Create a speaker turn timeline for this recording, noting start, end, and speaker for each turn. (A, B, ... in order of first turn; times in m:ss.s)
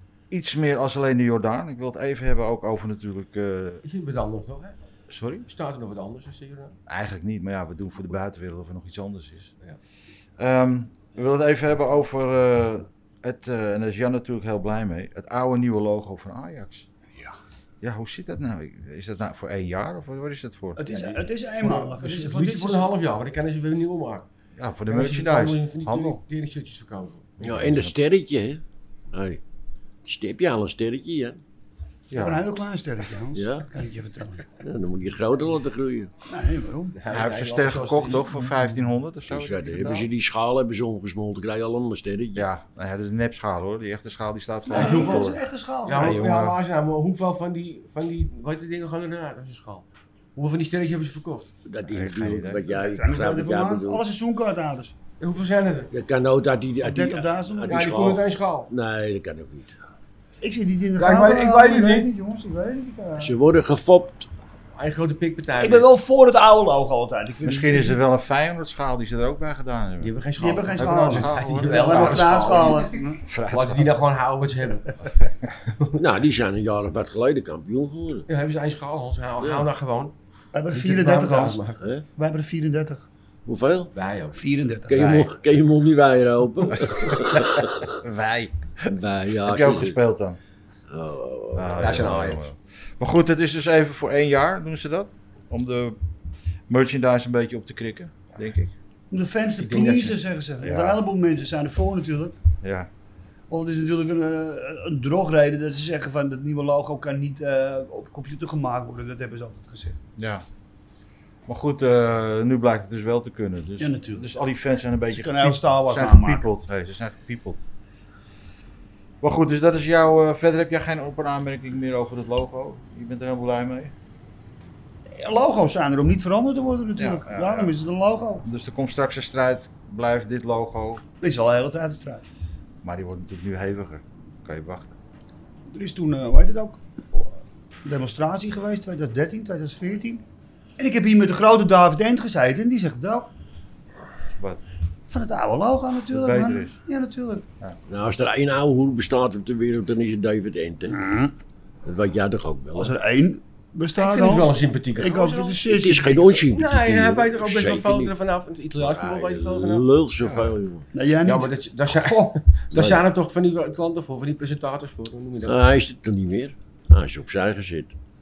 0:00.3-0:03.8 A
0:03.8-0:04.8 B
0:05.1-0:05.5 A
0:05.4-0:06.8 B
0:06.9-0:09.5 A
0:10.4-0:16.9 A
0:17.8-0:21.2 A
0:20.8-0:22.9 C
0:21.6-0:24.2 B
0:24.6-0:26.2 A
0:24.9-0:27.6 B
0:27.4-0:28.0 A
0:27.4-0:28.6 D
0:29.1-0:29.4 D
0:30.0-0:31.4 D
0:32.1-0:32.4 A
0:32.1-0:34.5 C
0:33.3-0:33.7 D
0:34.5-0:36.1 D
0:36.3-0:37.0 C
0:36.9-0:38.3 B
0:37.1-0:40.1 A
0:39.3-0:42.5 D
0:42.3-0:45.4 A
0:44.6-0:46.2 C
0:44.7-0:51.5 B
0:46.0-0:46.6 A
0:51.6-0:54.0 D
0:51.9-0:52.7 A
0:52.7-0:55.0 C
0:55.2-0:55.9 B
0:55.9-0:59.8 D
0:56.8-0:58.2 C
0:57.7-0:58.7 B
1:00.4-1:03.3 C
1:01.0-1:02.1 B
1:03.2-1:04.3 D
1:04.7-1:05.8 B
1:05.6-1:08.0 C
1:07.4-1:10.1 A
1:10.0-1:13.0 B
1:10.4-1:13.2 C
1:10.8-1:12.7 A
1:13.2-1:13.9 A
1:13.5-1:15.9 B
1:15.9-1:18.2 D
1:18.3-1:20.1 B
1:19.4-1:19.7 D
1:20.5-1:21.6 C
1:20.7-1:21.8 B
1:21.8-1:22.0 D
1:22.2-1:23.0 C
1:23.4-1:23.9 D
1:23.9-1:24.4 B
1:24.3-1:25.1 C
1:24.9-1:27.9 D
1:24.9-1:25.3 A
1:28.0-1:28.9 A
1:28.9-1:30.0 D
1:29.4-1:30.4 A
1:30.9-1:32.1 D
1:31.5-1:36.0 A
1:31.8-1:32.5 B
1:36.7-1:38.7 A
1:39.1-1:42.4 C
1:39.6-1:40.2 B
1:40.6-1:41.0 A
1:42.6-1:42.9 A
1:43.5-1:50.0 C
1:50.2-1:50.4 A
1:51.5-1:57.6 A
1:53.8-1:54.2 C
1:55.1-1:56.4 C
1:59.2-2:03.9 A
2:05.2-2:08.4 C
2:07.0-2:07.7 A
2:08.4-2:11.0 A
2:11.2-2:12.2 C
2:12.8-2:14.9 A
2:15.7-2:17.3 C
2:17.8-2:20.2 C
2:20.8-2:23.3 C
2:25.1-2:27.4 C
2:26.1-2:26.8 A
2:27.9-2:31.1 D
2:30.9-2:31.3 C
2:31.8-2:32.9 D
2:32.7-2:36.4 C
2:33.9-2:35.7 B
2:35.7-2:38.2 D
2:36.5-2:39.9 B
2:38.7-2:40.8 D
2:40.9-2:42.4 C
2:41.2-2:45.6 B
2:42.7-2:43.0 D
2:45.4-2:47.9 D